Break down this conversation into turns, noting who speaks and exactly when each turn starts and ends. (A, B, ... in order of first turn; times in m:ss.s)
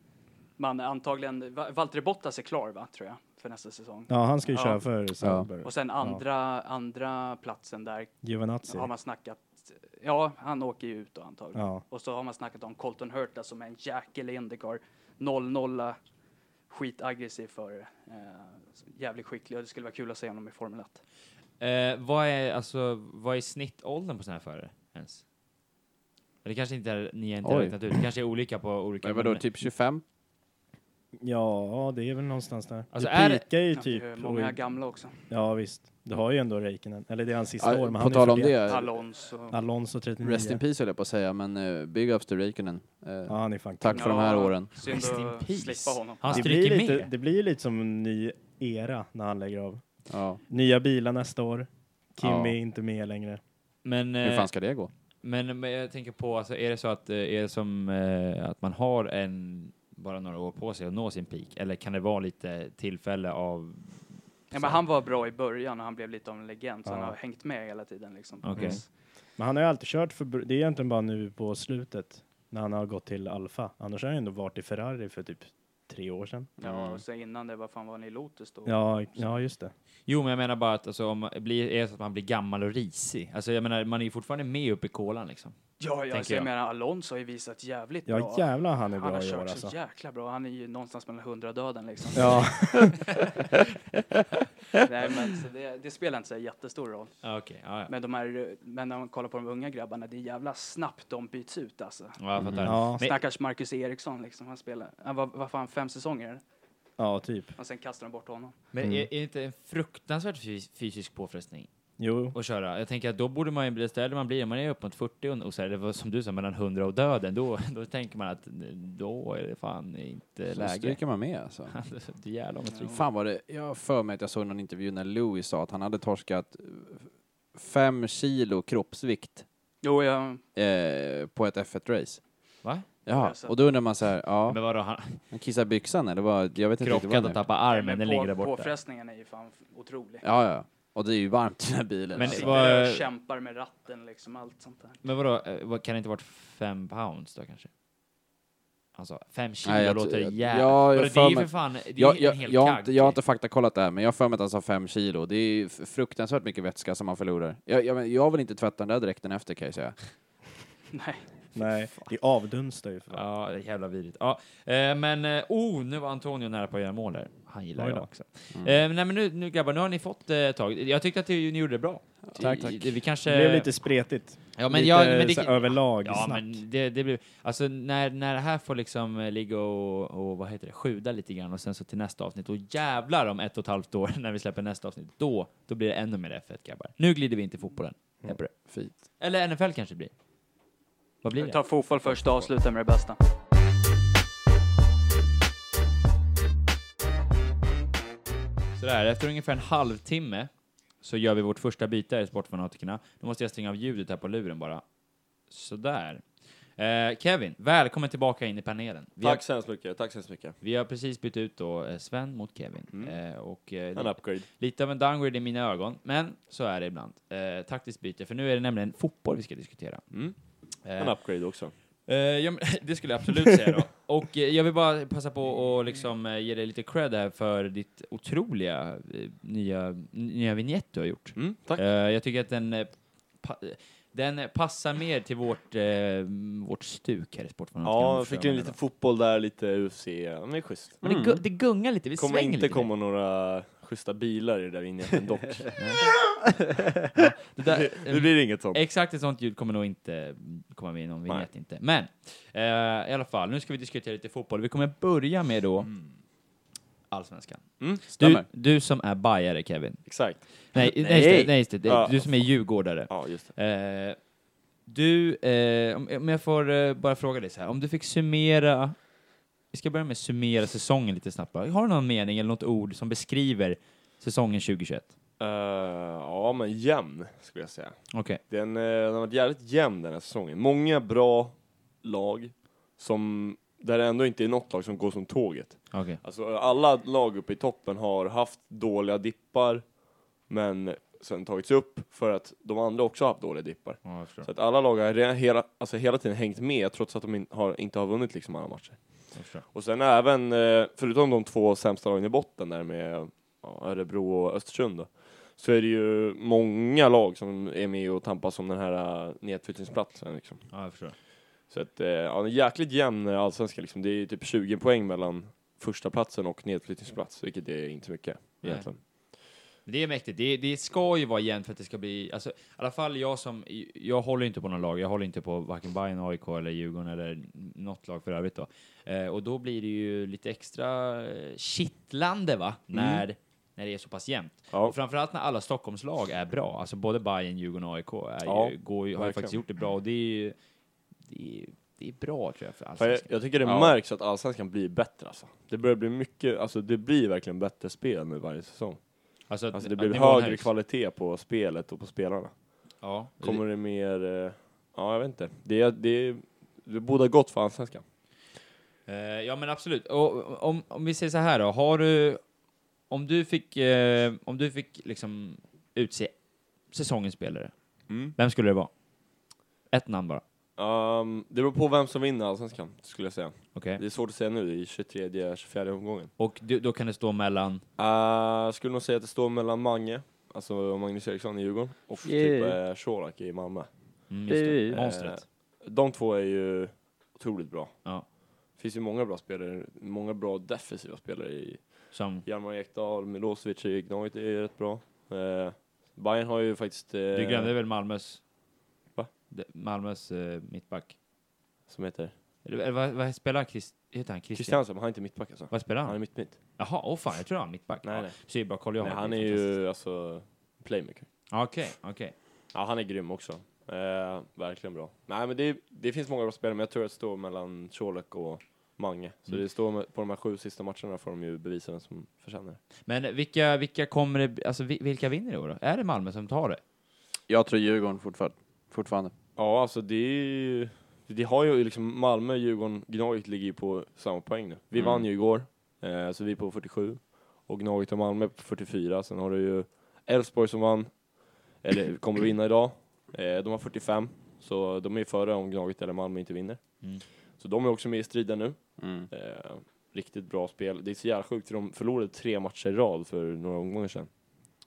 0:00.6-0:04.8 A
0:04.1-0:06.2 B
0:05.2-0:05.5 C
0:05.6-0:16.0 A
0:08.2-0:08.9 B
0:11.6-0:11.8 B
0:16.7-0:21.0 A
0:21.6-0:25.2 D
0:26.4-0:29.4 D
0:27.4-0:27.8 C
0:29.0-0:30.0 C
0:31.2-0:34.6 B
0:32.9-0:33.4 D
0:33.7-0:35.2 A
0:35.3-0:38.7 B
0:37.6-0:38.9 C
0:38.6-0:39.6 A
0:39.5-0:40.6 B
0:40.2-0:44.7 C
0:43.3-0:44.2 B
0:43.9-0:46.6 A
0:44.8-0:47.1 D
0:46.3-0:49.8 B
0:50.1-0:50.4 C
0:50.5-0:53.4 B
0:52.2-0:52.6 C
0:53.8-0:54.5 D
0:54.2-0:54.9 C
0:55.2-1:04.8 D
1:04.5-1:08.9 A
1:06.9-1:07.2 B
1:08.4-1:08.8 D
1:08.6-1:08.8 B
1:09.4-1:16.5 B
1:16.6-1:17.0 C
1:16.6-1:19.4 A
1:18.7-1:19.7 B
1:20.1-1:25.6 D
1:25.8-1:32.8 A
1:26.1-1:26.5 D
1:28.1-1:29.8 B
1:32.2-1:33.1 B
1:34.8-1:37.2 A
1:37.2-1:37.9 D
1:37.9-1:42.2 A
1:42.2-1:43.2 D
1:42.4-1:42.7 C
1:42.6-1:43.0 B
1:43.0-1:46.4 A
1:47.0-1:47.5 B
1:47.6-1:48.6 A
1:48.7-1:51.7 D
1:52.0-1:52.4 B
1:52.3-2:01.0 D
2:00.5-2:01.7 C
2:01.7-2:03.0 D
2:02.9-2:09.4 C
2:09.8-2:10.4 A
2:10.6-2:12.2 C
2:13.1-2:14.6 C
2:13.1-2:13.7 A
2:14.5-2:15.2 D
2:15.3-2:17.4 C
2:16.8-2:18.7 D
2:17.7-2:20.2 A
2:20.2-2:22.6 C
2:22.2-2:23.1 D
2:22.2-2:25.0 A
2:25.0-2:27.7 D
2:29.0-2:33.2 D
2:29.6-2:40.0 C
2:40.9-2:42.1 A
2:41.6-2:43.2 B
2:43.1-2:53.7 D
2:47.8-2:48.1 B
2:52.3-2:52.9 C
2:52.4-2:56.6 B
2:54.6-3:10.1 D
3:08.7-3:09.0 C
3:11.2-3:12.4 D
3:11.4-3:13.2 A
3:18.8-3:20.5 D
3:21.0-3:24.8 D
3:25.5-3:26.2 D
3:26.8-3:29.4 D
3:29.2-3:30.6 E
3:30.6-3:58.8 D
3:32.9-3:33.2 E
3:33.9-3:34.5 E
3:40.1-3:41.7 E
3:51.4-3:51.8 E
3:57.8-4:01.0 E
4:01.0-4:01.4 C
4:01.0-4:02.9 D
4:02.2-4:05.8 E
4:05.8-4:06.6 D
4:07.1-4:15.9 D
4:07.6-4:08.8 E
4:15.9-4:16.2 E
4:17.1-4:24.2 D
4:17.8-4:18.1 E
4:18.1-4:18.5 C
4:20.0-4:20.7 E
4:20.8-4:21.6 C
4:21.8-4:23.6 E
4:24.9-4:29.1 D
4:29.7-4:35.1 D
4:35.4-5:10.8 E
4:38.1-4:38.4 D
4:45.9-4:46.2 D
4:54.0-4:54.5 D
4:59.3-4:59.6 D
5:10.7-5:11.2 D
5:11.7-5:19.0 E
5:18.6-5:19.3 D
5:19.8-5:40.6 D
5:32.9-5:33.2 E
5:34.7-5:35.0 E
5:38.4-5:39.6 E
5:41.2-5:43.3 D
5:43.0-5:58.0 E
5:43.6-5:44.0 C
5:49.5-5:50.7 D
5:53.0-5:53.6 D
5:59.1-6:02.4 D
6:03.1-6:08.9 D
6:08.1-6:08.4 E
6:09.9-6:10.4 D
6:10.8-6:16.3 E
6:13.7-6:14.0 D
6:16.4-6:17.8 D
6:18.0-6:37.7 E
6:22.2-6:22.8 C
6:24.3-6:25.4 D
6:24.5-6:25.0 C
6:32.1-6:32.5 D
6:37.3-6:38.4 D
6:39.5-6:41.2 D
6:41.9-6:42.3 E
6:42.6-6:49.8 D
6:44.6-6:46.6 E
6:48.0-6:51.3 E
6:51.5-6:52.4 D
6:52.7-7:02.8 E
7:03.1-7:06.8 D
7:07.5-7:09.3 C
7:09.6-7:34.4 E
7:15.0-7:15.3 C
7:29.0-7:29.3 C